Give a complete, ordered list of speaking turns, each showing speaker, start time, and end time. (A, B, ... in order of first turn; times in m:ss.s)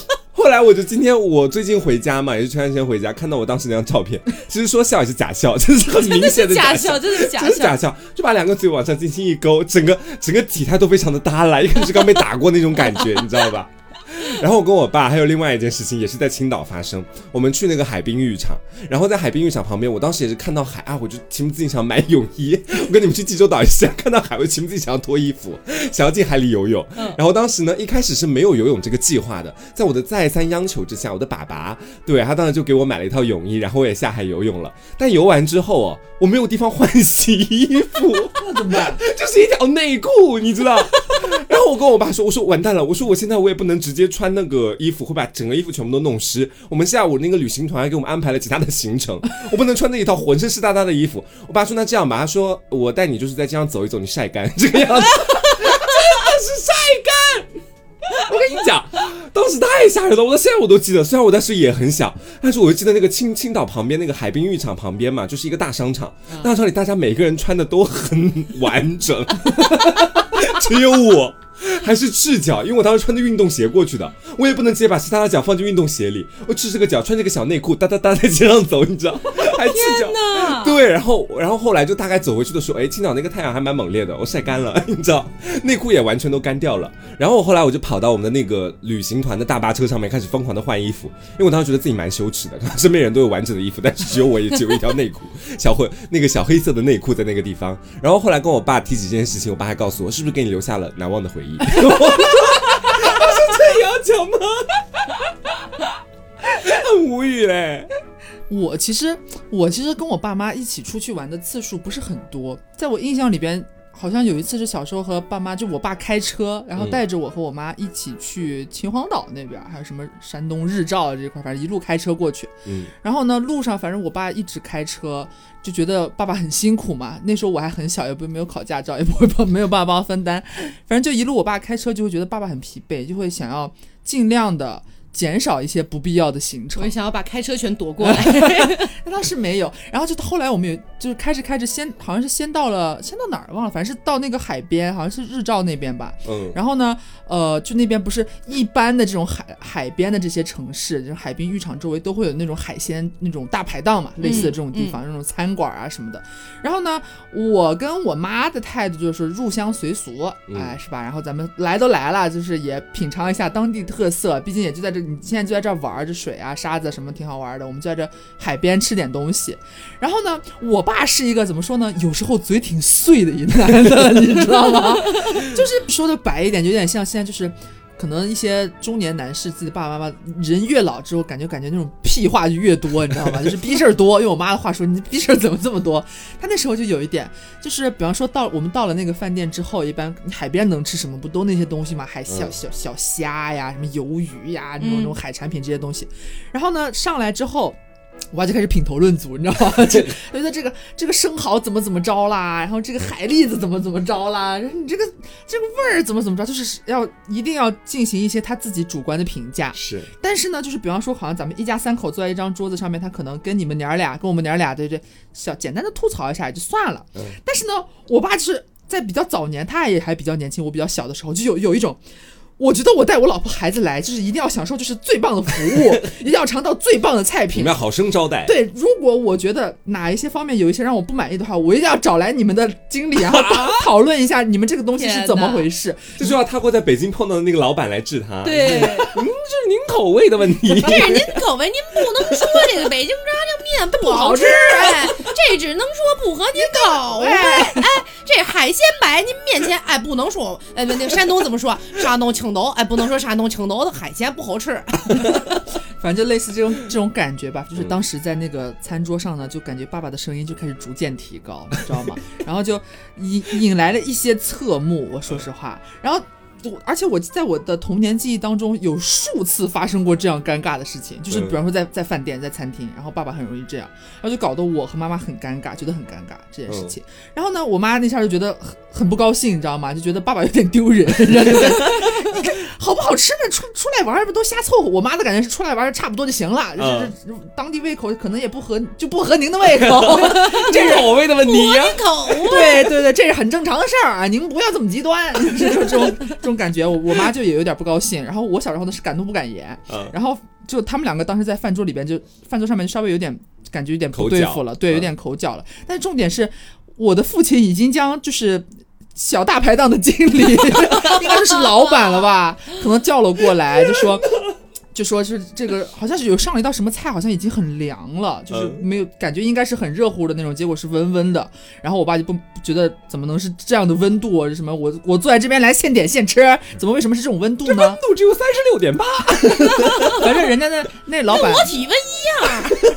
0:00.3-0:57.5 A
0:06.0-0:07.8 B
0:38.3-0:39.0 C
0:40.9-0:41.2 C
0:58.1-1:47.9 A
1:19.6-1:20.8 B
1:48.5-2:16.9 C
1:56.8-1:57.0 A
2:02.6-2:02.9 A
2:16.8-2:18.9 B
2:18.0-3:17.8 C
2:26.2-2:26.6 A
2:34.2-2:35.0 B
2:40.5-2:40.7 A
3:12.3-3:12.5 A
3:14.8-3:15.1 B
3:18.3-3:42.0 C
3:19.9-3:20.1 A
3:29.7-3:30.1 A
3:42.6-3:47.8 C
3:47.5-3:48.5 A
3:48.4-3:56.4 C
3:53.2-3:53.9 A
3:55.0-3:55.7 B
3:56.2-4:01.4 A
3:58.4-3:59.2 B
4:00.6-4:15.5 B
4:02.3-4:02.7 A
4:04.0-4:05.3 C
4:06.6-4:08.0 C
4:16.0-4:51.1 C
4:31.3-4:31.6 A
4:36.7-4:36.9 A
4:41.4-4:42.1 A
4:46.8-4:47.1 A
4:49.7-4:52.3 A
4:50.4-4:52.9 B
4:52.4-5:14.4 C
5:04.1-5:05.1 A
5:10.9-5:11.9 B
5:14.9-5:28.0 C
5:18.5-5:18.8 A
5:27.6-5:30.4 A
5:29.7-5:31.7 C
5:31.3-5:32.8 B